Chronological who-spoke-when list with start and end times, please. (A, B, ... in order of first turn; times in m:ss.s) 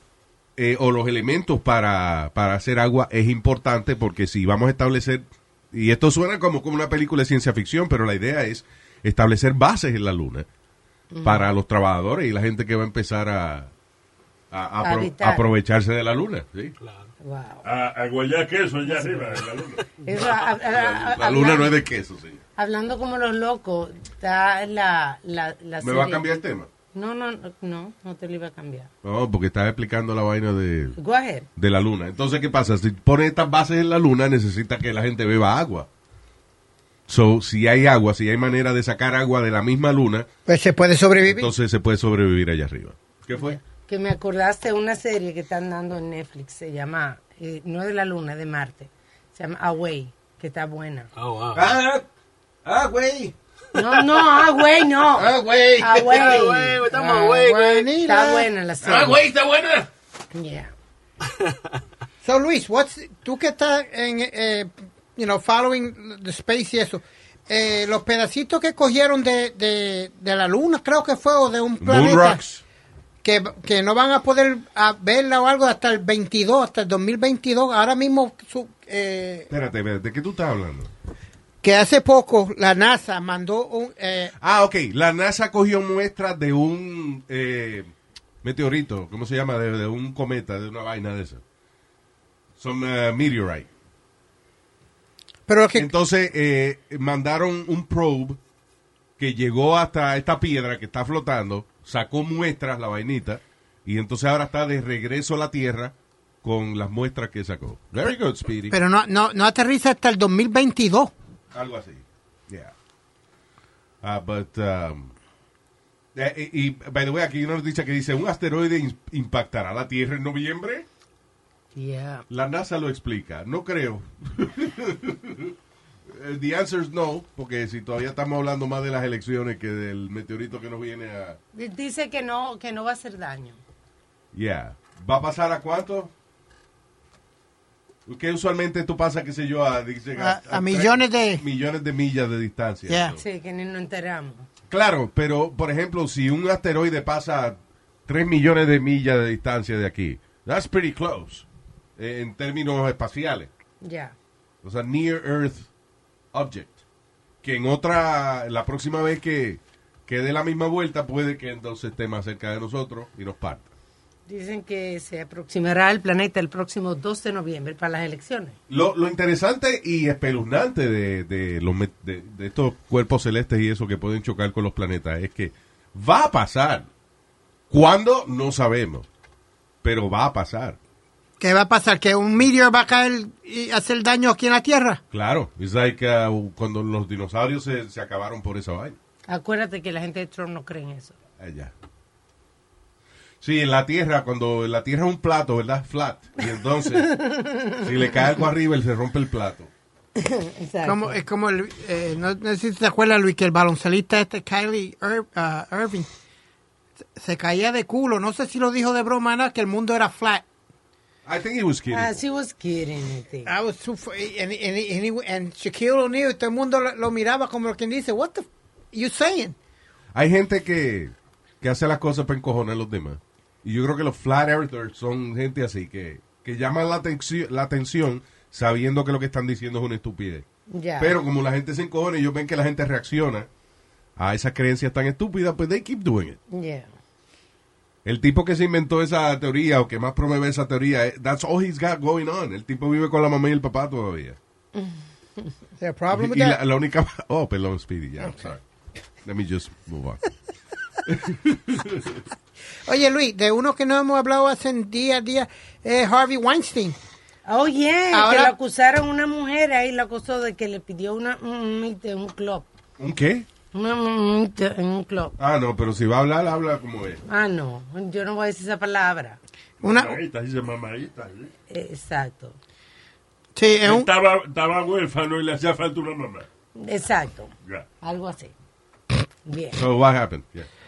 0:00.6-0:10.4 A
0:11.1-0:11.5 B
0:11.2-0:13.7 A
0:14.5-0:16.7 A
0:14.8-0:15.4 B
0:16.8-0:17.1 C
0:17.2-0:17.6 B
0:17.6-0:19.8 D
0:20.0-0:21.8 B
0:20.7-0:22.4 A
0:22.6-0:26.4 B
0:25.8-0:26.7 A
0:26.9-0:28.9 B
0:29.0-0:31.0 A
0:31.0-0:31.5 B
0:31.6-0:35.9 A
0:37.1-0:40.3 A
0:40.4-0:41.5 E
0:41.2-0:43.6 A
0:43.3-0:51.1 B
0:51.1-0:51.8 C
0:51.5-0:52.0 A
0:52.6-0:53.3 A
0:53.7-0:56.8 B
0:55.2-0:56.3 A
0:56.1-0:57.9 C
0:56.9-0:58.5 E
0:58.0-0:59.2 B
0:58.8-0:59.9 A
1:00.3-1:00.7 B
1:02.2-1:12.4 E
1:11.8-1:12.6 A
1:13.2-1:19.5 E
1:19.5-1:20.9 A
1:21.6-1:24.3 E
1:24.4-1:27.9 A
1:28.4-1:31.4 A
1:32.6-1:33.7 A
1:35.5-1:35.9 E
1:35.8-1:38.4 A
1:39.2-1:48.8 A
1:48.7-1:51.1 E
1:51.5-1:52.7 A
1:54.0-1:55.1 A
1:56.1-2:00.8 A
2:01.7-2:02.2 B
2:02.3-2:05.5 A
2:06.1-2:11.4 A
2:11.5-2:13.6 B
2:14.3-2:16.1 A
2:18.1-2:23.2 A
2:20.2-2:21.4 E
2:22.9-2:23.1 E
2:23.2-2:24.4 B
2:24.7-2:31.4 A
2:32.0-2:33.5 A
2:33.8-2:34.1 B
2:34.6-2:35.7 A
2:36.3-2:36.8 A
2:37.4-2:43.7 A
2:44.3-2:48.6 B
2:48.7-2:56.9 A
2:57.7-2:59.0 A
2:59.8-3:00.8 A
3:01.4-3:05.0 E
3:05.1-3:09.0 A
3:09.3-3:11.1 B
3:11.4-3:11.7 A
3:13.4-3:17.2 A
3:17.0-3:18.3 B
3:17.7-3:19.7 A
3:20.2-3:21.2 B
3:20.8-3:26.1 E
3:27.2-3:30.4 E
3:31.2-3:32.1 A
3:31.9-3:33.5 B
3:33.4-3:39.6 E
3:40.1-3:50.4 A
3:50.7-3:51.2 B
3:51.0-3:53.5 A
3:54.2-3:56.4 A
3:56.5-3:56.9 B
3:58.0-4:04.4 A
4:04.7-4:05.0 B
4:05.8-4:06.6 E
4:06.1-4:08.6 A
4:09.2-4:10.2 A
4:11.1-4:12.2 A
4:12.8-4:17.0 E
4:17.4-4:22.7 B
4:18.1-4:18.5 E
4:23.0-4:23.4 A
4:23.7-4:25.4 B
4:25.4-4:27.2 A
4:27.3-4:29.4 B
4:29.8-4:30.2 E
4:29.8-4:31.5 D
4:31.7-4:32.6 B
4:33.5-4:34.1 E
4:33.8-4:36.4 D
4:36.8-4:38.5 B
4:39.4-4:39.8 B
4:39.7-4:40.7 A